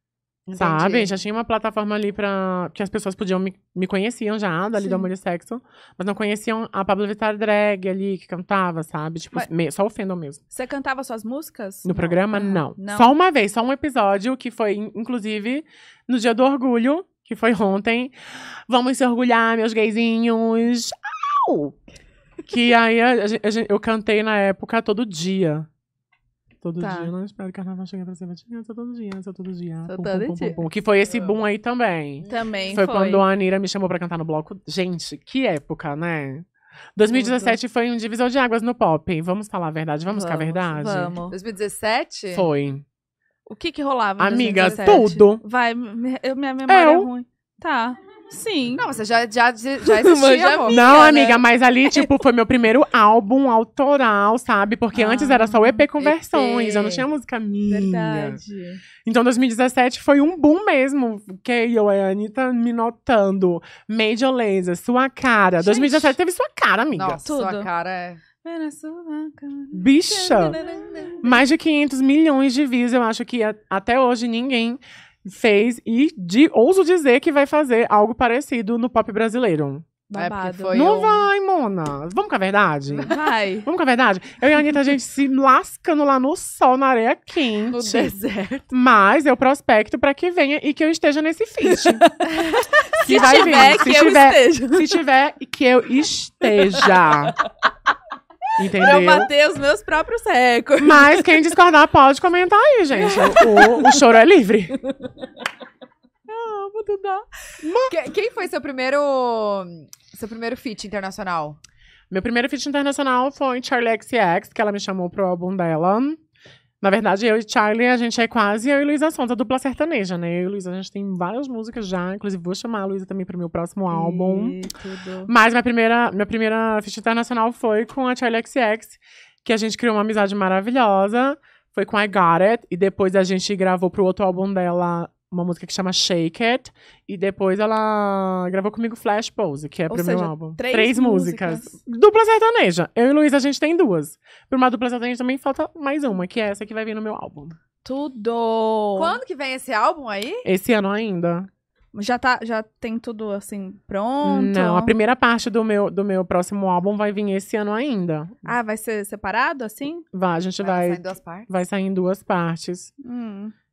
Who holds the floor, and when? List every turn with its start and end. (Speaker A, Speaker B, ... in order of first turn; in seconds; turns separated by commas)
Speaker A: 0.5-1.1, Speaker B: 0.5-10.4, Speaker C: 4.8-5.1, Speaker C: 10.5-13.1, Speaker B: 11.8-18.1, Speaker B: 18.7-21.8, Speaker B: 22.4-25.7, Speaker B: 26.6-41.1, Speaker C: 26.8-27.1, Speaker C: 29.9-30.6, Speaker A: 30.9-31.4, Speaker A: 32.2-32.8, Speaker C: 32.2-33.3, Speaker C: 37.1-37.6, Speaker C: 40.1-41.3, Speaker A: 41.3-42.5, Speaker B: 42.3-42.8, Speaker C: 43.5-48.9, Speaker B: 44.2-45.4, Speaker A: 44.5-45.1, Speaker B: 46.7-47.1, Speaker A: 48.8-50.8, Speaker C: 49.9-52.1, Speaker B: 50.7-58.4, Speaker C: 54.9-55.9, Speaker A: 56.0-57.1, Speaker C: 57.6-58.8, Speaker B: 59.0-67.2, Speaker C: 65.6-66.2, Speaker A: 66.9-68.2, Speaker C: 67.2-67.7, Speaker C: 68.4-71.4, Speaker B: 69.7-70.6, Speaker B: 71.2-79.9, Speaker C: 80.1-81.3, Speaker A: 80.1-81.1, Speaker B: 80.7-88.1, Speaker C: 83.0-83.7, Speaker A: 87.7-88.7, Speaker B: 88.7-92.0, Speaker C: 91.6-95.0, Speaker B: 93.0-97.3, Speaker A: 93.3-93.5, Speaker C: 96.4-97.1, Speaker B: 98.6-99.3, Speaker C: 98.7-101.5, Speaker B: 100.8-104.7, Speaker C: 103.0-104.0, Speaker C: 104.8-105.1, Speaker C: 106.3-107.2, Speaker B: 107.6-107.9, Speaker A: 107.9-111.6, Speaker B: 112.1-116.2, Speaker B: 116.8-124.6, Speaker C: 123.9-125.3, Speaker B: 125.2-147.6, Speaker C: 139.9-141.7, Speaker C: 147.8-149.2, Speaker A: 148.9-150.5, Speaker B: 150.4-151.5, Speaker C: 151.9-154.9, Speaker B: 154.2-158.6, Speaker C: 158.4-160.0, Speaker B: 160.1-162.9, Speaker A: 160.6-161.5, Speaker C: 163.0-163.5